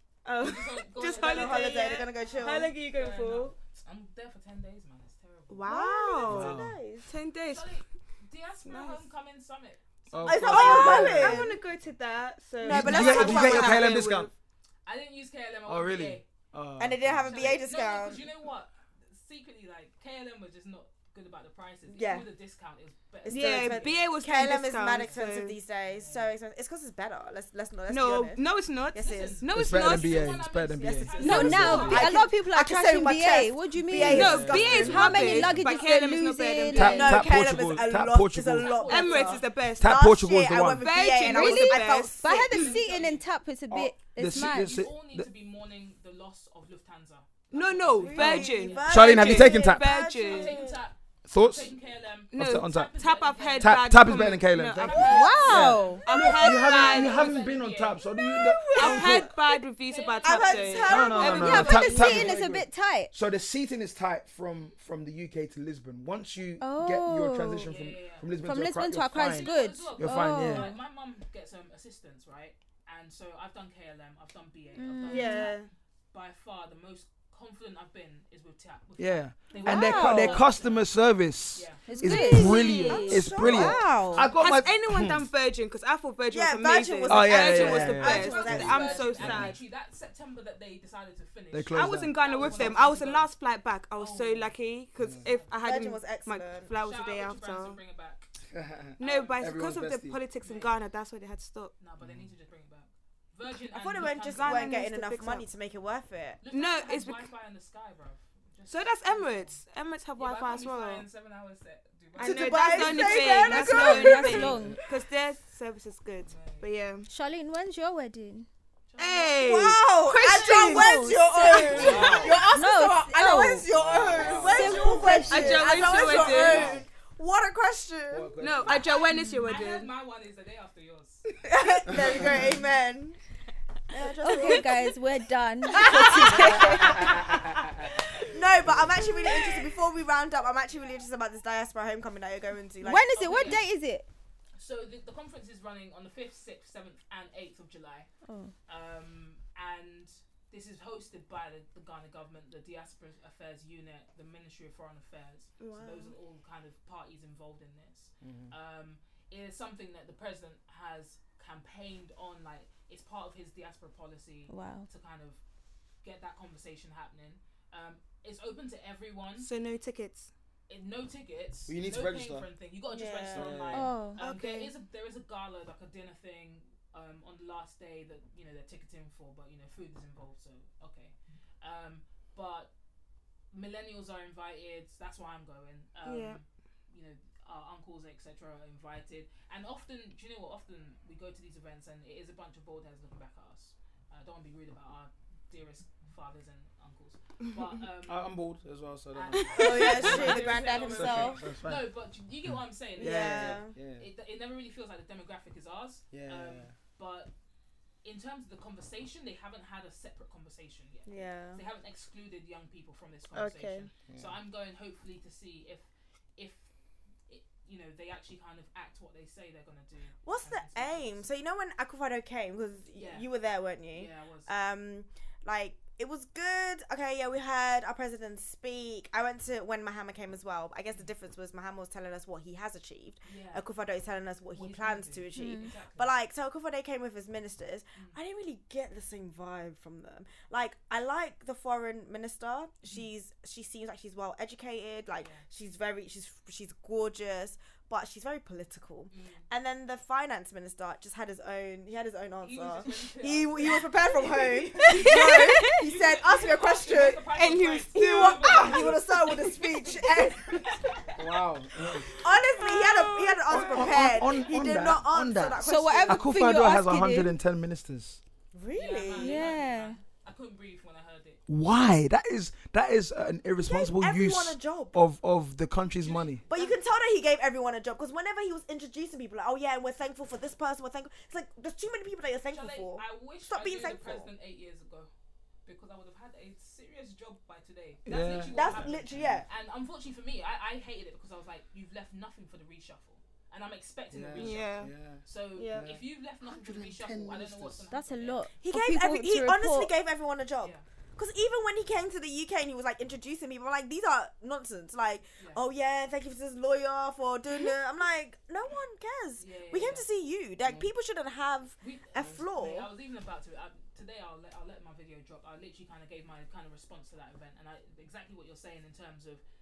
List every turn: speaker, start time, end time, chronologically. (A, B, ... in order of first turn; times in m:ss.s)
0:00.2-0:03.6 A
0:00.4-0:05.9 B
0:01.2-0:02.7 C
0:05.5-0:07.7 A
0:05.7-0:07.0 C
0:06.2-0:06.8 D
0:07.5-0:10.9 B
0:08.6-0:09.0 A
0:10.1-0:11.5 D
0:10.2-0:11.6 C
0:10.4-0:14.3 A
0:12.6-0:14.2 C
0:12.7-0:14.3 D
0:14.9-0:16.3 B
0:15.7-0:17.6 D
0:16.8-0:18.3 C
0:17.3-0:24.1 B
0:21.9-0:22.3 C
0:23.2-0:29.4 C
0:23.3-0:25.6 A
0:25.9-0:26.4 B
0:27.9-0:30.4 A
0:29.0-0:32.1 B
0:29.5-0:32.2 D
0:30.8-0:35.2 C
0:31.2-0:32.0 A
0:31.2-0:37.3 E
0:33.9-0:35.7 D
0:34.0-0:37.2 A
0:35.2-0:36.0 B
0:36.7-0:38.7 D
0:36.8-0:42.8 C
0:37.4-0:38.0 B
0:38.6-0:39.5 B
0:38.8-0:40.0 A
0:39.8-0:40.9 D
0:40.8-0:42.5 A
0:41.2-0:44.8 E
0:42.3-0:43.3 B
0:43.7-0:45.3 D
0:44.3-0:58.0 B
0:47.5-0:50.6 A
0:48.0-0:50.8 C
0:48.9-0:49.9 D
0:51.3-0:51.8 D
0:52.3-0:52.9 D
0:52.3-0:57.4 A
0:53.6-0:59.3 D
0:55.0-0:56.0 E
0:58.2-1:02.2 A
0:58.8-0:59.3 B
0:59.8-1:01.7 B
1:00.2-1:02.3 C
1:00.9-1:10.7 D
1:01.2-1:03.1 E
1:06.6-1:07.7 E
1:07.6-1:08.3 B
1:08.4-1:10.8 E
1:09.1-1:22.4 B
1:14.8-1:15.5 E
1:15.1-1:15.7 A
1:19.0-1:25.3 D
1:19.6-1:20.5 E
1:21.9-1:24.3 E
1:22.1-1:23.2 A
1:22.3-1:24.2 C
1:24.4-1:29.6 A
1:26.3-1:29.2 C
1:27.1-1:29.6 D
1:27.6-1:33.3 B
1:31.5-1:32.8 D
1:31.7-1:37.8 A
1:34.0-1:34.6 B
1:35.0-1:35.3 D
1:35.2-1:35.6 B
1:35.6-1:36.7 C
1:36.8-1:38.3 B
1:38.5-1:40.2 D
1:39.0-1:41.7 A
1:39.0-1:39.7 B
1:40.4-1:40.7 B
1:41.8-1:44.8 B
1:42.0-1:42.3 D
1:43.7-1:46.4 C
1:44.0-1:45.5 A
1:46.4-1:49.6 B
1:46.5-1:47.3 A
1:48.7-1:51.0 A
1:50.2-1:53.5 B
1:52.2-1:57.1 A
1:52.2-1:54.7 C
1:53.2-1:54.8 E
1:54.3-1:54.8 D
1:56.2-1:56.7 B
1:57.1-1:58.5 E
1:58.9-1:59.8 B
1:59.0-2:02.2 A
1:59.4-2:08.4 C
2:00.3-2:06.2 E
2:01.7-2:02.4 D
2:01.8-2:02.3 B
2:03.7-2:06.9 D
2:04.4-2:06.8 A
2:08.1-2:08.9 D
2:08.4-2:09.9 A
2:08.6-2:11.3 B
2:09.1-2:09.4 E
2:11.4-2:13.2 C
2:11.9-2:12.6 D
2:13.9-2:14.9 C
2:14.2-2:17.0 E
2:14.2-2:14.6 A
2:15.7-2:17.2 C
2:15.7-2:16.6 A
2:16.6-2:17.9 D
2:18.2-2:23.6 C
2:18.6-2:19.1 D
2:22.8-2:24.1 E
2:23.2-2:23.7 B
2:24.6-2:28.1 B
2:28.2-2:28.5 E
2:28.7-2:45.4 B
2:35.6-2:36.2 A
2:38.2-2:38.5 D
2:44.5-2:44.9 E
2:46.0-2:49.5 B
2:49.4-2:50.3 A
2:50.7-3:02.7 B
2:51.7-2:52.5 D
2:52.9-2:53.7 C
2:53.3-2:53.9 D
2:53.7-2:54.2 E
2:54.2-2:54.7 A
3:03.5-3:18.3 B
3:06.0-3:06.4 A
3:18.1-3:21.9 D
3:19.1-3:27.3 B
3:19.5-3:21.4 C
3:23.0-3:23.8 C
3:23.0-3:24.1 D
3:26.1-3:26.8 D
3:28.0-3:36.7 B
3:31.1-3:31.6 C
3:33.3-3:33.9 A
3:34.1-3:34.4 D
3:37.3-3:41.2 B
3:40.2-4:17.3 C
3:43.0-3:43.3 B
3:43.9-3:44.5 B
3:53.2-3:53.7 B
3:54.5-3:56.1 B
3:55.3-3:55.7 E
4:05.2-4:05.4 B
4:09.1-4:09.5 B
4:12.4-4:21.4 B
4:14.8-4:15.8 A
4:17.4-4:19.1 A
4:18.0-4:20.8 C
4:21.2-4:22.1 D
4:22.0-4:24.1 A
4:22.2-4:26.4 C
4:23.5-4:28.2 D
4:25.6-4:27.4 E
4:28.5-4:29.5 C
4:28.7-4:31.4 B
4:29.1-4:30.0 E
4:31.5-4:36.4 D
4:33.6-4:35.0 C
4:36.0-4:36.8 B
4:36.5-4:44.3 C
4:42.5-4:45.1 B
4:45.6-4:58.5 B
4:48.1-4:49.5 D
4:48.5-4:49.5 C
4:54.1-4:57.8 D
4:54.4-4:54.9 A
4:55.6-4:55.9 A
4:57.9-4:59.9 E
4:58.6-5:12.9 C
5:09.4-5:10.1 B
5:10.7-5:10.9 D
5:11.8-5:19.4 B